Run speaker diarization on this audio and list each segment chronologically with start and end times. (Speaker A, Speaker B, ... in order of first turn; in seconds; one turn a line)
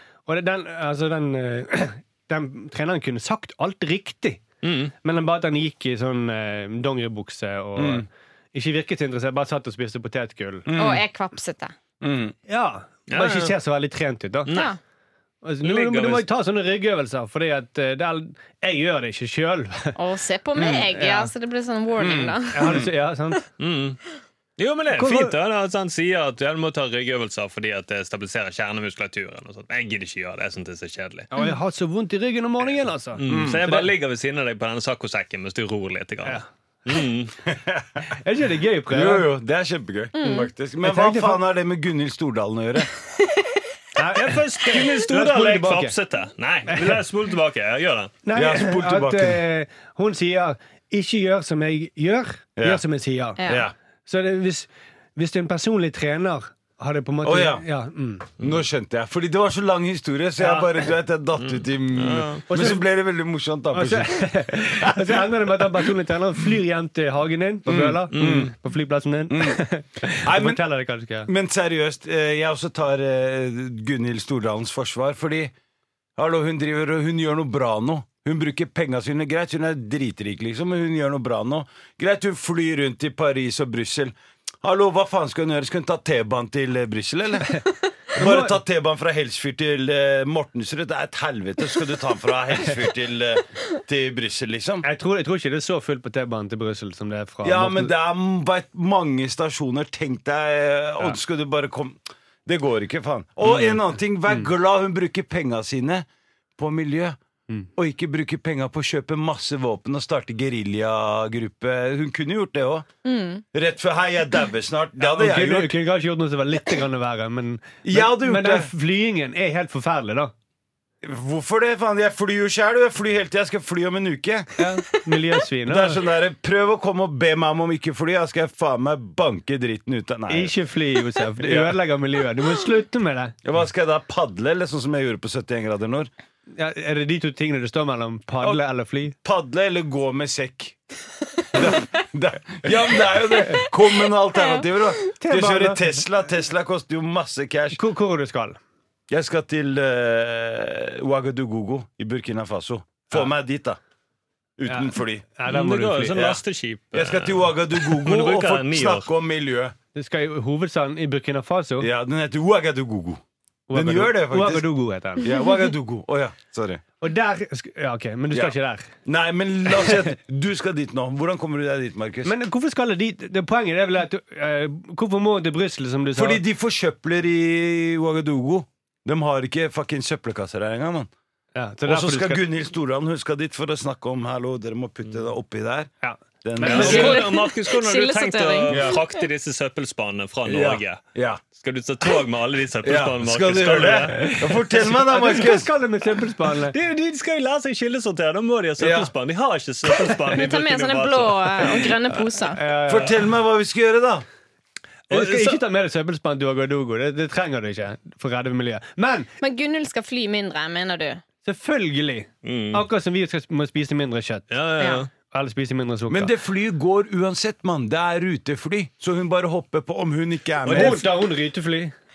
Speaker A: 0.2-4.4
Speaker B: 4.6-4.9
Speaker A: 5.0-10.7
Speaker C: 7.8-8.1
Speaker C: 10.7-11.0
Speaker D: 10.8-11.7
Speaker C: 12.0-12.3
Speaker A: 12.5-14.6
Speaker B: 13.1-13.6
Speaker B: 14.4-14.7
Speaker D: 14.5-14.8
Speaker A: 15.4-20.0
Speaker B: 15.6-16.2
Speaker D: 19.9-22.9
Speaker A: 20.6-21.3
Speaker C: 22.0-22.9
Speaker A: 22.5-23.4
Speaker B: 23.6-24.0
Speaker B: 24.6-31.3
Speaker A: 24.9-25.3
Speaker A: 31.3-33.9
Speaker B: 33.1-37.4
Speaker C: 33.3-33.8
Speaker C: 37.5-38.0
Speaker A: 38.1-39.3
Speaker C: 38.9-42.9
Speaker D: 40.2-40.5
Speaker A: 40.8-41.4
Speaker A: 44.0-46.0
Speaker B: 44.1-48.1
Speaker A: 46.7-47.0
Speaker A: 48.2-53.5
Speaker C: 48.3-49.4
Speaker C: 52.6-52.8
Speaker D: 53.4-53.6
Speaker C: 53.4-53.7
Speaker A: 54.0-58.3
Speaker C: 57.2-57.6
Speaker C: 58.4-65.6
Speaker A: 60.4-60.7
Speaker B: 61.4-62.5
Speaker A: 62.5-62.8
Speaker A: 63.7-71.3
Speaker C: 67.7-68.5
Speaker B: 68.1-68.5
Speaker C: 69.3-69.6
Speaker C: 70.2-70.6
Speaker C: 71.2-75.5
Speaker C: 76.2-87.6
Speaker C: 88.1-94.8
Speaker A: 88.1-88.6
Speaker A: 94.8-97.9
Speaker C: 97.4-106.0
Speaker B: 103.4-103.8
Speaker C: 106.6-107.2
Speaker C: 107.8-112.8
Speaker D: 113.0-113.4
Speaker C: 113.5-115.7
Speaker A: 115.0-120.3
Speaker C: 117.8-118.7
Speaker C: 121.0-124.5
Speaker A: 124.6-126.0
Speaker C: 125.7-130.5
Speaker A: 130.3-133.3
Speaker C: 131.4-131.8
Speaker C: 133.4-136.1
Speaker A: 136.5-139.2
Speaker C: 139.2-140.8
Speaker C: 141.5-147.8
Speaker D: 143.4-144.8
Speaker A: 145.2-145.9
Speaker A: 147.7-148.6
Speaker C: 149.1-153.8
Speaker C: 154.6-155.2
Speaker A: 154.7-156.3
Speaker B: 155.5-159.1
Speaker C: 156.1-156.4
Speaker C: 156.9-159.7
Speaker A: 159.9-161.9
Speaker C: 161.8-163.2
Speaker A: 163.7-165.3
Speaker C: 163.7-164.7
Speaker C: 165.2-166.8
Speaker A: 167.0-168.9
Speaker C: 168.3-172.3
Speaker A: 169.8-170.1
Speaker A: 172.2-176.4
Speaker C: 176.1-181.1
Speaker A: 181.5-182.4
Speaker C: 181.8-185.9
Speaker A: 186.0-187.2
Speaker C: 186.4-187.2
Speaker B: 186.6-191.0
Speaker D: 186.6-189.2
Speaker C: 188.7-189.0
Speaker C: 190.4-191.4
Speaker B: 191.5-194.2
Speaker C: 192.8-195.7
Speaker A: 194.1-196.8
Speaker B: 196.7-201.9
Speaker C: 198.8-199.1
Speaker D: 200.3-202.6
Speaker A: 202.5-203.3
Speaker C: 202.9-204.2
Speaker B: 205.1-205.6
Speaker A: 205.1-209.3
Speaker D: 209.4-211.2
Speaker A: 211.4-214.5
Speaker B: 212.4-212.8
Speaker B: 214.5-215.1
Speaker D: 214.8-215.1
Speaker A: 215.3-216.3
Speaker C: 216.1-221.1
Speaker A: 220.6-221.9
Speaker B: 220.7-221.0